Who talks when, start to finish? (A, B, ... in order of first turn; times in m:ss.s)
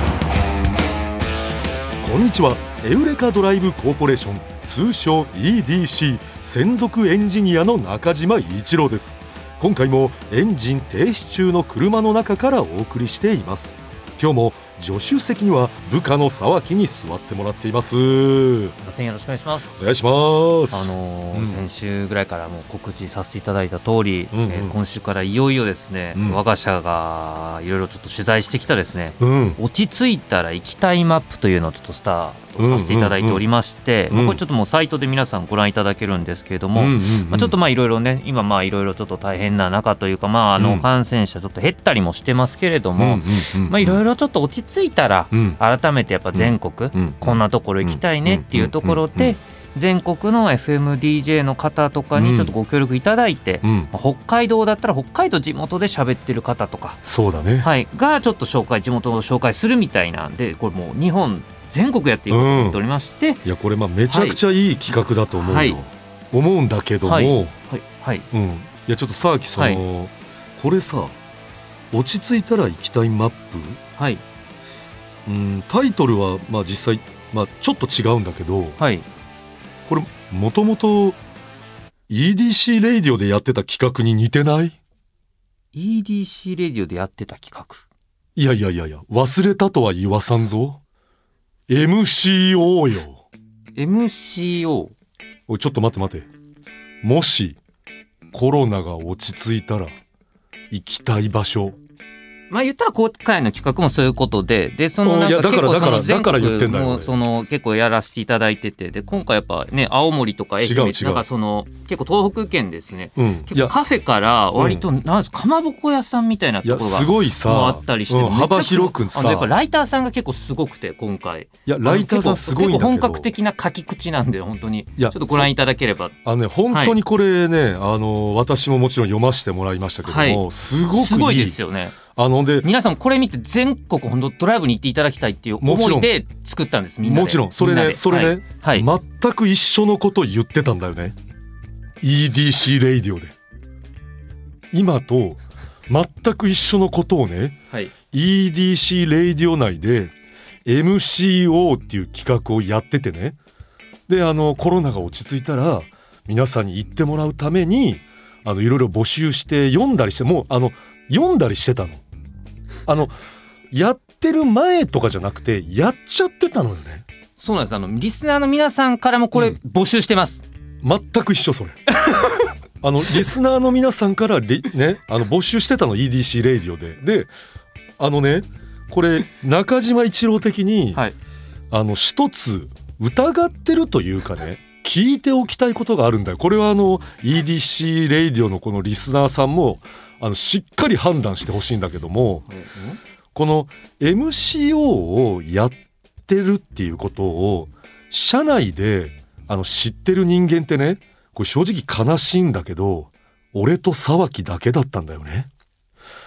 0:02.0-0:18.8 A
0:18.8-0:19.9 B
0:19.8-0:21.6 A
0:20.7-0:57.0 B
0:24.3-0:24.8 A
0:26.1-0:26.4 A
0:29.2-0:29.6 A
0:32.6-0:33.4 A
0:34.1-0:34.4 A
0:36.8-0:37.6 A
0:40.6-0:40.8 A
0:43.0-0:44.0 A
0:45.3-0:45.6 A
0:46.3-0:49.3 A
0:52.2-0:52.5 A
0:53.6-0:53.9 A
0:57.0-0:57.7 A
0:57.6-1:03.4 B
1:02.3-1:02.8 A
1:03.4-1:07.5 A
1:04.1-1:04.4 B
1:05.3-1:05.8 B
1:07.0-1:08.2 B
1:08.3-1:11.2 A
1:09.6-1:09.8 B
1:11.9-1:13.8 A
1:14.0-1:14.2 B
1:15.2-1:18.8 A
1:18.8-1:19.0 B
1:19.9-1:21.2 A
1:22.1-1:24.8 A
1:25.7-1:27.8 B
1:28.4-1:30.8 A
1:31.7-1:33.2 A
1:33.8-1:34.9 B
1:35.5-1:36.3 A
1:37.0-1:37.6 A
1:38.3-1:39.9 A
1:40.7-1:41.8 A
1:42.5-2:06.1 B
1:45.0-1:47.1 A
1:50.6-1:51.2 A
1:53.2-1:53.7 A
1:54.6-1:54.8 A
1:56.6-1:59.5 A
2:01.6-2:03.3 A
2:05.0-2:05.5 A
2:06.2-2:11.6 A
2:06.7-2:07.0 B
2:10.0-2:12.0 B
2:12.1-2:12.7 A
2:12.6-2:18.9 B
2:15.6-2:16.1 A
2:17.0-2:21.2 A
2:22.0-2:23.3 A
2:24.7-2:27.6 A
2:28.1-2:30.1 A
2:30.6-2:33.4 A
2:34.1-2:42.0 A
2:42.9-2:43.1 A
2:43.7-2:47.1 A
2:47.4-2:50.4 B
2:50.8-2:51.8 A
2:52.1-2:52.4 B
2:52.8-2:57.3 A
2:58.0-3:01.0 A
3:01.7-3:12.4 A
3:12.5-3:13.0 B
3:13.3-3:25.5 A